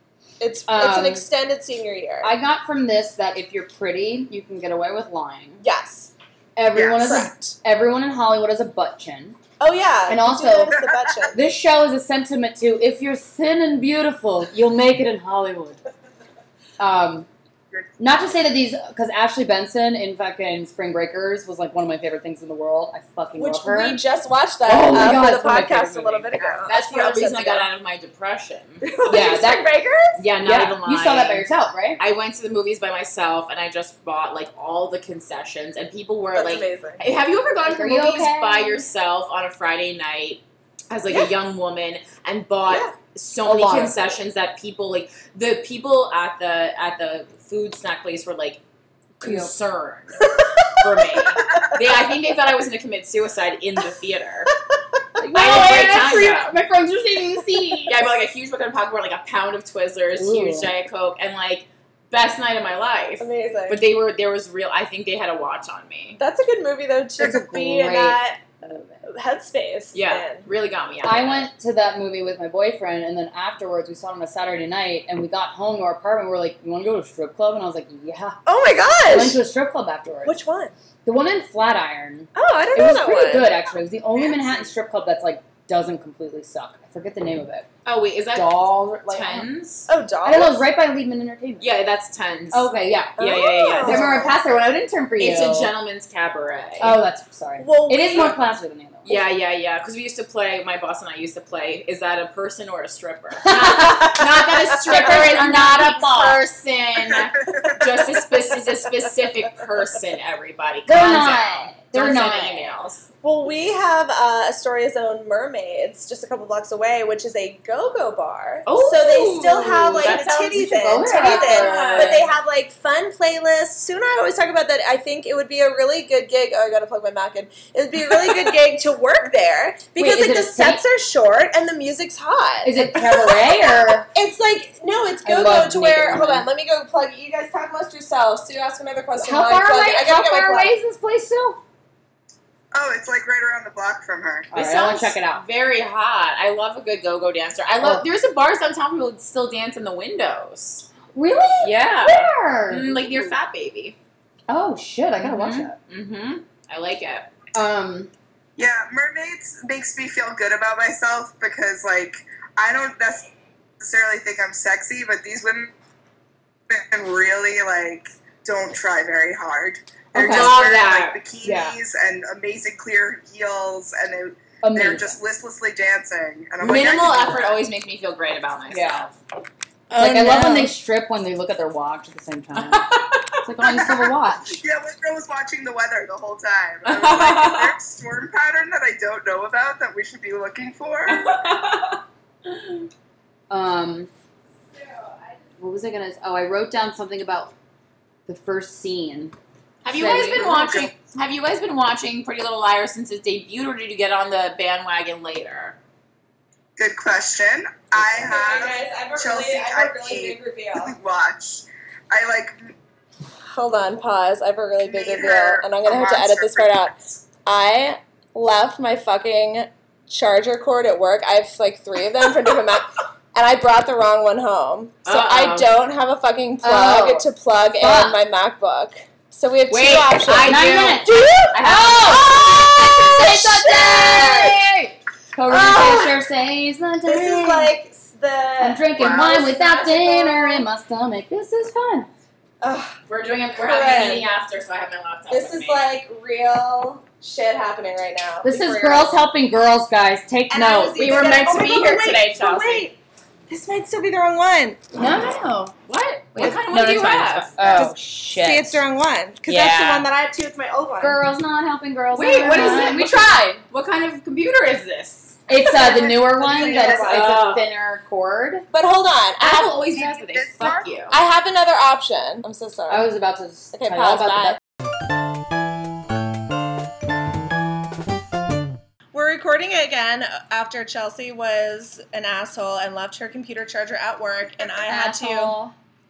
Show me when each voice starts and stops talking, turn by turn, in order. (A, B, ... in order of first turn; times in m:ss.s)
0:00.4-0:02.3 A
0:00.7-0:01.2 B
0:02.2-0:05.6 B
0:05.6-0:06.1 A
0:06.6-0:09.4 B
0:06.7-0:07.3 C
0:07.0-0:07.5 A
0:09.6-0:11.4 A
0:10.1-0:10.7 B
0:10.7-0:11.3 C
0:11.3-0:15.8 B
0:16.8-0:17.3 B
0:18.0-0:24.0 B
0:23.4-0:27.7 A
0:24.6-0:26.6 B
0:26.6-0:29.4 D
0:28.8-0:30.2 A
0:29.1-0:29.7 B
0:30.2-0:31.5 D
0:30.4-0:32.0 B
0:32.0-0:48.6 D
0:36.3-0:37.1 A
0:37.6-0:38.8 B
0:42.6-0:42.9 A
0:43.4-0:44.0 B
0:49.2-0:54.5 D
0:49.2-0:49.5 B
0:50.3-0:51.6 A
0:55.2-0:58.0 B
0:55.3-0:56.6 D
0:57.2-1:06.2 D
1:00.2-1:00.7 B
1:03.2-1:03.8 A
1:06.2-1:08.4 A
1:07.2-1:09.1 B
1:09.0-1:10.4 A
1:09.9-1:11.5 D
1:11.0-1:18.4 B
1:18.4-1:19.4 A
1:19.0-1:20.4 B
1:20.2-1:20.7 A
1:21.0-1:27.7 B
1:22.3-1:23.5 A
1:27.8-1:29.9 D
1:28.3-1:29.5 B
1:29.9-1:30.7 A
1:30.2-1:31.7 B
1:31.6-1:34.3 D
1:32.5-1:35.7 B
1:33.2-1:34.3 A
1:35.2-1:37.0 D
1:36.8-1:39.2 B
1:37.6-1:38.4 A
1:39.0-1:53.0 D
1:43.4-1:46.4 B
1:44.9-1:45.2 A
1:47.1-1:47.8 C
1:50.9-1:52.8 B
1:53.2-2:20.7 A
1:58.6-2:02.3 D
2:00.0-2:02.2 B
2:10.0-2:10.8 B
2:12.6-2:14.1 B
2:15.2-2:16.5 B
2:19.2-2:21.6 B
2:22.7-2:24.5 C
2:24.5-2:25.4 B
2:24.5-2:30.9 D
2:31.1-2:33.3 B
2:31.6-2:34.0 D
2:34.5-2:35.8 B
2:35.2-2:37.3 D
2:37.5-2:38.1 B
2:38.6-2:45.7 C
2:46.7-2:57.6 C
2:50.1-2:50.6 B
2:50.1-2:51.2 D
2:51.4-2:51.8 B
2:54.6-2:55.2 B
2:56.6-2:59.1 D
2:58.7-2:59.1 B
2:59.9-3:00.7 A
2:59.9-3:04.6 B
3:02.6-3:04.0 D
3:04.4-3:11.5 C
3:06.8-3:07.8 D
3:11.1-3:12.8 D
3:13.5-3:14.1 B
3:14.7-3:15.5 A
3:15.6-3:17.5 B
3:18.3-3:19.3 B
3:19.8-3:25.8 D
3:19.9-3:20.5 B
3:20.4-3:20.9 C
3:26.8-3:32.7 C
3:28.2-3:31.0 A
3:33.5-3:54.6 A
3:34.8-3:36.8 C
3:45.0-3:45.7 D
3:46.6-3:48.2 B
3:49.7-3:52.5 D
3:50.4-3:57.7 B
3:55.5-3:56.2 A
3:57.0-4:00.6 A
3:58.6-4:02.1 B
4:02.6-4:03.0 A
4:03.1-4:05.8 D
4:03.6-4:04.3 A
4:05.3-4:09.2 A
4:08.4-4:11.2 B
4:10.5-4:13.0 A
4:11.0-4:12.9 D
4:13.5-4:14.8 A
4:15.0-4:15.7 B
4:15.8-4:17.9 D
4:16.3-4:18.8 B
4:17.7-4:21.2 A
4:19.4-4:20.1 B
4:21.0-4:23.4 B
4:22.1-4:25.4 D
4:22.4-4:23.0 A
4:25.5-4:28.7 B
4:25.5-4:27.5 A
4:26.5-4:27.6 D
4:28.7-4:29.8 A
4:29.4-4:31.2 D
4:29.9-4:30.9 C
4:31.1-4:33.0 A
4:32.9-4:34.6 B
4:33.7-4:34.6 A
4:39.1-4:45.5 A
4:44.8-4:45.7 B